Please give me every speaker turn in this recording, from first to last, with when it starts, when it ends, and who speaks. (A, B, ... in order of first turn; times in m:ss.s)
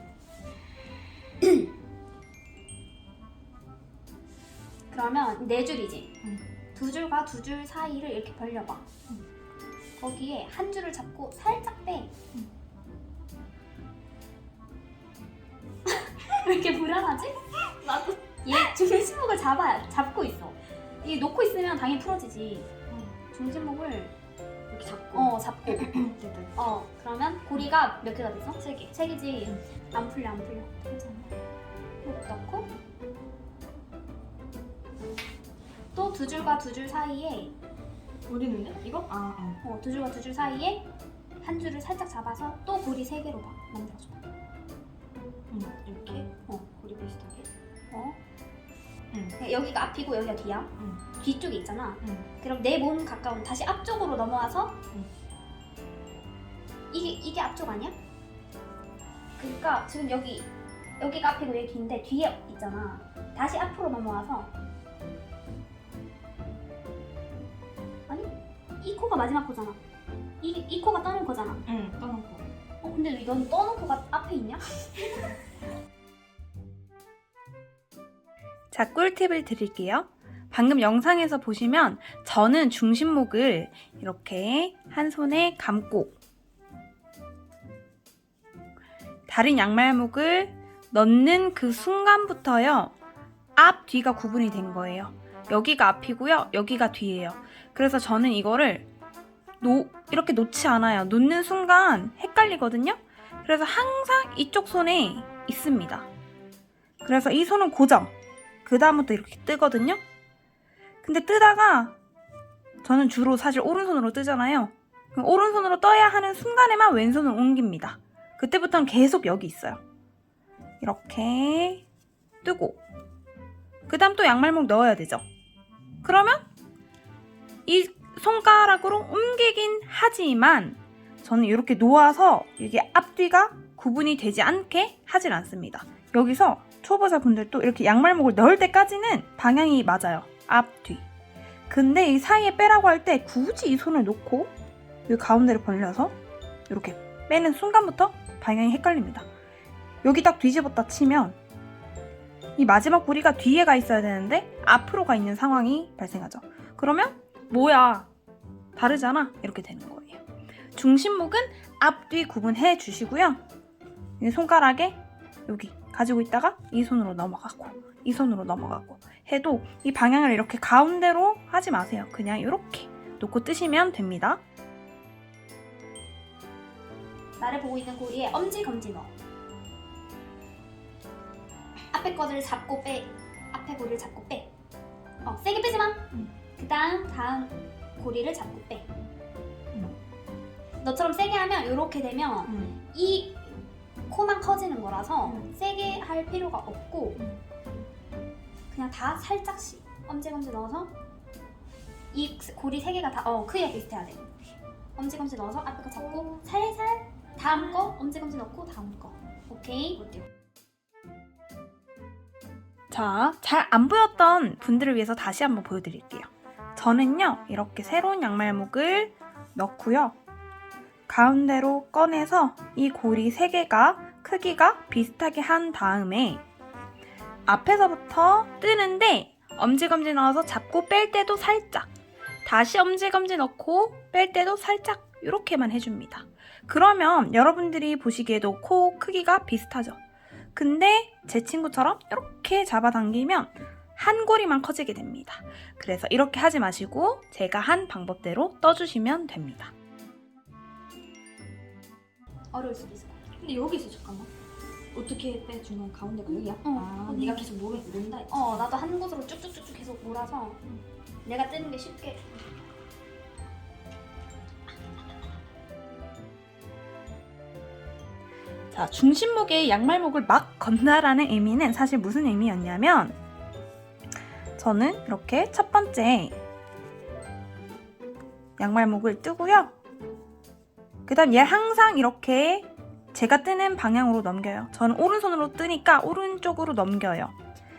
0:04.9-0:06.1 A
0:06.8-0:08.8 A
0:10.0-0:12.1 A
0:15.9-0:17.5 A
0:17.7-0:18.2 B
0:18.4-0:22.7 A
0:22.9-0:23.2 B
0:23.3-0:24.1 A
0:24.7-0:26.7 B
0:25.1-0:25.9 A
0:26.6-0:31.0 A
0:28.6-0:28.9 B
0:30.9-0:31.3 B
0:32.0-0:32.7 A
0:35.9-0:37.5 A
0:38.3-0:39.6 B
0:39.6-0:40.9 A
0:41.4-0:44.2 A
0:45.5-0:47.5 B
0:47.9-0:48.2 A
0:49.1-0:49.4 B
0:49.4-0:54.8 A
0:50.8-0:51.0 B
0:52.0-0:52.3 B
0:56.9-0:58.0 A
0:59.4-1:04.5 A
1:08.1-1:09.8 A
1:10.4-1:11.6 A
1:11.7-1:12.4 B
1:12.8-1:15.1 A
1:18.7-1:26.2 C
1:29.3-1:32.9 C
1:33.6-1:38.9 C
1:39.6-1:46.1 C
1:47.0-1:50.0 C
1:51.0-1:52.0 C
1:52.8-1:59.8 C
2:00.8-2:01.8 C
2:02.4-2:02.8 C
2:03.9-2:05.2 C
2:06.0-2:06.5 C
2:07.7-2:21.1 C
2:21.7-2:24.5 C
2:25.1-2:26.2 C
2:26.7-2:29.3 C
2:30.0-2:31.4 C
2:32.6-2:38.1 C
2:38.8-2:40.2 C
2:40.8-2:43.4 C
2:44.2-2:54.4 C
2:57.4-2:59.1 A
3:01.9-3:04.5 A
3:05.2-3:06.1 A
3:06.6-3:08.9 A
3:10.8-3:13.6 A
3:12.5-3:12.8 B
3:14.1-3:17.2 A
3:18.7-3:20.9 A
3:22.1-3:24.3 A
3:25.0-3:30.0 A
3:26.1-3:26.4 B
3:32.9-3:40.2 C
3:41.1-3:46.4 C
3:47.5-3:51.9 C
3:52.4-4:00.0 C
4:00.6-4:09.7 C
4:12.5-4:13.2 A
4:13.4-4:14.3 B
4:14.9-4:18.6 B
4:16.3-4:17.5 A
4:18.3-4:20.6 A
4:21.2-4:22.3 A
4:28.7-4:33.2 C
4:34.6-4:36.4 C
4:38.6-4:39.8 C
4:41.1-4:47.3 C